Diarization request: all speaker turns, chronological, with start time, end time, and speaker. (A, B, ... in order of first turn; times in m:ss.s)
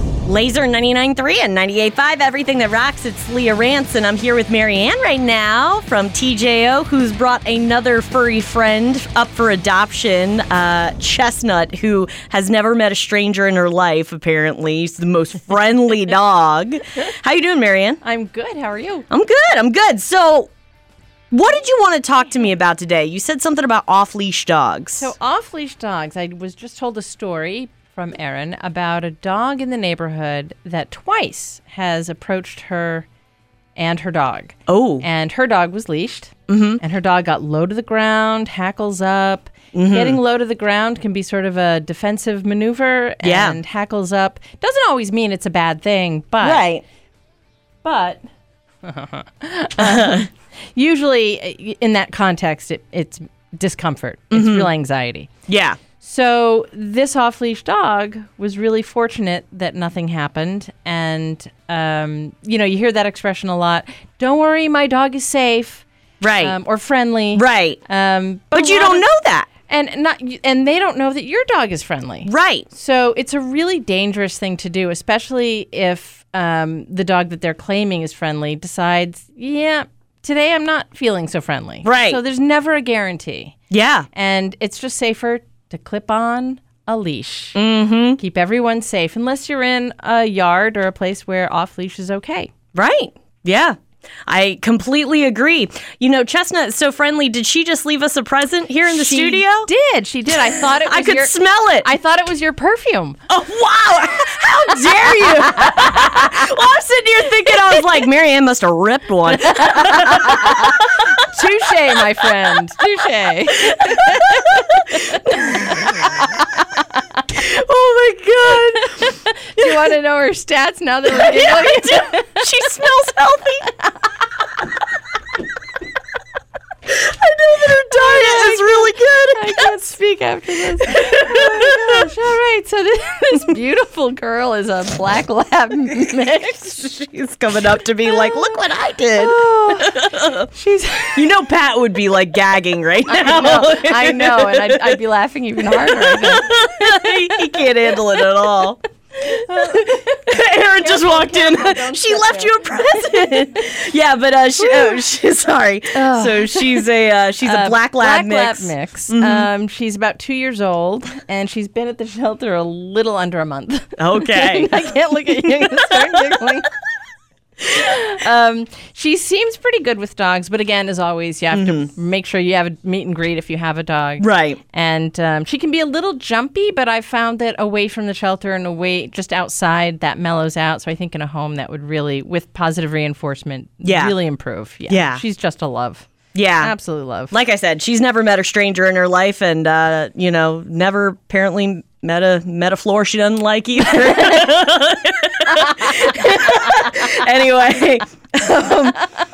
0:00.2-0:18.0 A
0:18.0-0:19.1 B
0:19.1-0:20.5 A
0:21.3-0:25.1 A
0:25.0-0:33.1 B
0:33.8-0:46.6 B
0:34.7-0:35.0 A
0:36.5-0:36.8 A
0:39.7-0:40.2 A
0:43.2-0:43.6 A
0:46.4-0:46.8 A
0:47.8-0:48.2 B
0:48.8-0:55.3 B
0:49.8-0:50.2 A
0:54.3-0:54.7 A
0:55.5-0:55.8 A
0:56.0-1:23.6 B
1:06.2-1:06.6 A
1:07.3-1:07.8 A
1:08.5-1:09.5 A
1:12.2-1:12.7 A
1:21.8-1:22.2 A
1:23.7-1:24.1 A
1:24.1-1:27.6 B
1:27.5-1:28.2 A
1:28.2-1:32.5 B
1:32.7-1:33.8 A
1:34.3-1:39.7 A
1:38.9-1:43.2 B
1:40.5-1:41.9 A
1:43.3-1:50.7 A
1:44.9-1:46.4 B
1:49.3-1:56.8 B
1:53.6-1:56.2 A
1:57.3-1:59.0 A
1:58.5-2:02.4 B
1:59.6-1:59.9 A
2:01.1-2:03.7 A
2:06.9-2:09.7 A
2:07.9-2:16.7 B
2:10.8-2:12.1 A
2:16.5-2:20.5 A
2:18.0-2:18.6 B
2:19.1-2:21.2 B
2:21.1-2:25.0 A
2:23.1-2:27.6 B
2:25.6-2:39.5 A
2:29.2-2:33.7 B
2:34.6-2:35.0 B
2:35.9-2:36.9 B
2:37.4-2:46.7 B
2:44.0-2:46.4 A
2:47.6-3:06.1 B
2:51.5-2:51.9 A
2:54.2-2:54.6 A
3:03.8-3:04.1 A
3:04.9-3:05.2 A
3:06.3-3:06.7 A
3:06.6-3:07.3 B
3:07.3-3:19.0 A